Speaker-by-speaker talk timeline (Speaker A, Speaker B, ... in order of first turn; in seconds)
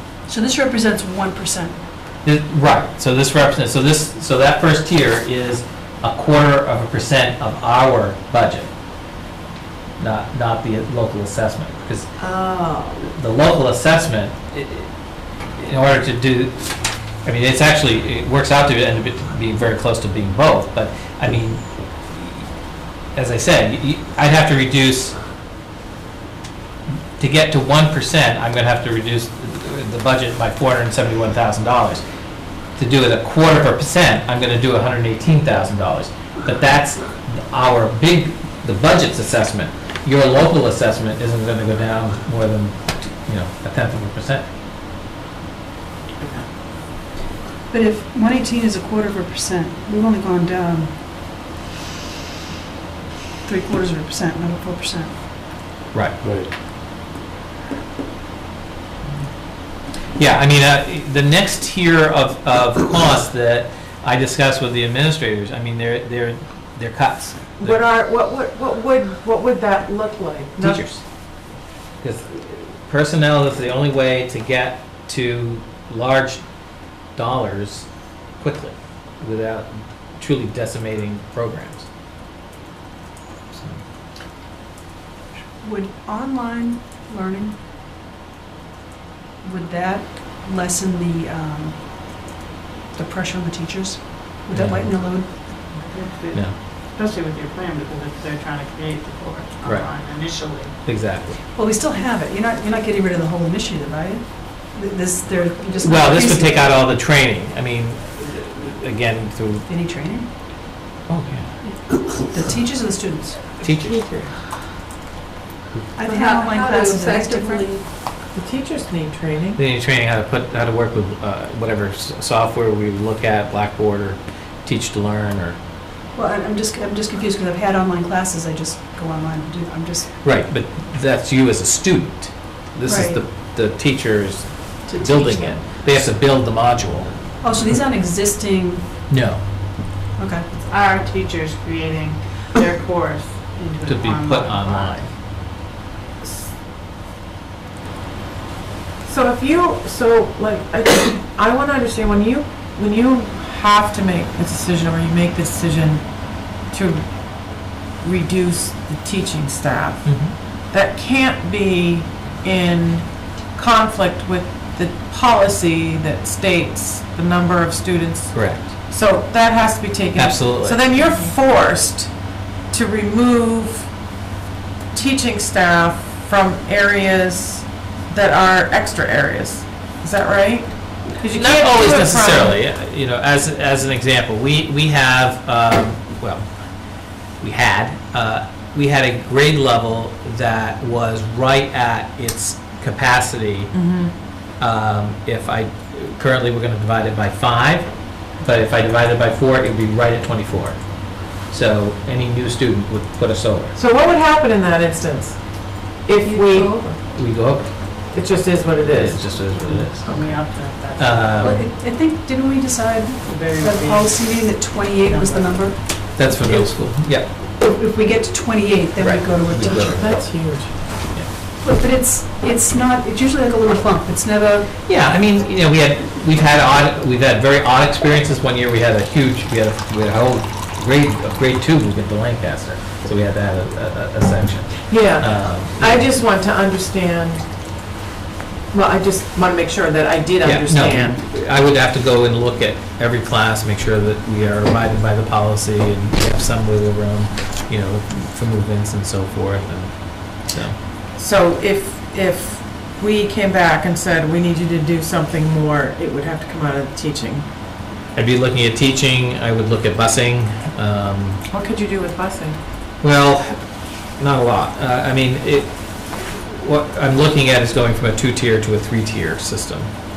Speaker A: 0.2-1.8, 47.7-51.0, 53.4-55.1, 85.6-87.6, 89.4-91.8, 92.9-95.3, 101.5-106.7, 109.7-110.3, 112.1-113.4, 115.9-117.8, 126.1-130.1, 132.8-133.2, 134.9-135.6, 137.4-138.9, 140.2-140.5, 211.4-216.7, 217.5-220.1, 221.6-224.7
Speaker B: 2.2-8.7, 10.0-12.1, 13.1-14.9, 15.6-16.7, 17.2-22.5, 23.1-25.1, 27.2-32.0, 32.8-44.5, 55.9-56.2, 60.1-67.8, 70.6-71.0, 72.0-76.4, 77.1-77.9, 78.4-81.8, 83.5-83.8, 94.5-94.9, 99.6-99.9, 100.8-101.4, 105.8-109.7, 111.1-111.5, 113.6-114.0, 119.5-125.6, 130.2-137.2, 139.1-139.4, 143.8-145.1, 160.0-160.3, 168.3-168.7, 170.2-170.8, 181.1-186.4, 187.4-193.7, 194.6-203.8, 207.1-207.8, 208.8-210.4, 210.9-211.7, 216.2-217.3, 219.0-220.1, 224.8-236.1, 240.4-250.8, 258.1-261.4, 263.0-263.6, 264.1-269.9
Speaker C: 12.2-13.1, 116.1-117.7
Speaker D: 46.2-46.5, 67.6-70.8, 113.6-114.3, 118.3-119.6, 149.0-156.1, 156.6-172.1, 172.7-173.9, 174.9-182.6, 193.7-194.1, 203.7-206.8, 208.1-210.3, 219.7-220.8, 234.9-237.5, 238.7-241.2, 251.2-257.4, 261.5-262.6
Speaker E: 95.7-100.7, 140.6-145.1, 210.1-211.6, 213.2-214.3, 215.0-215.6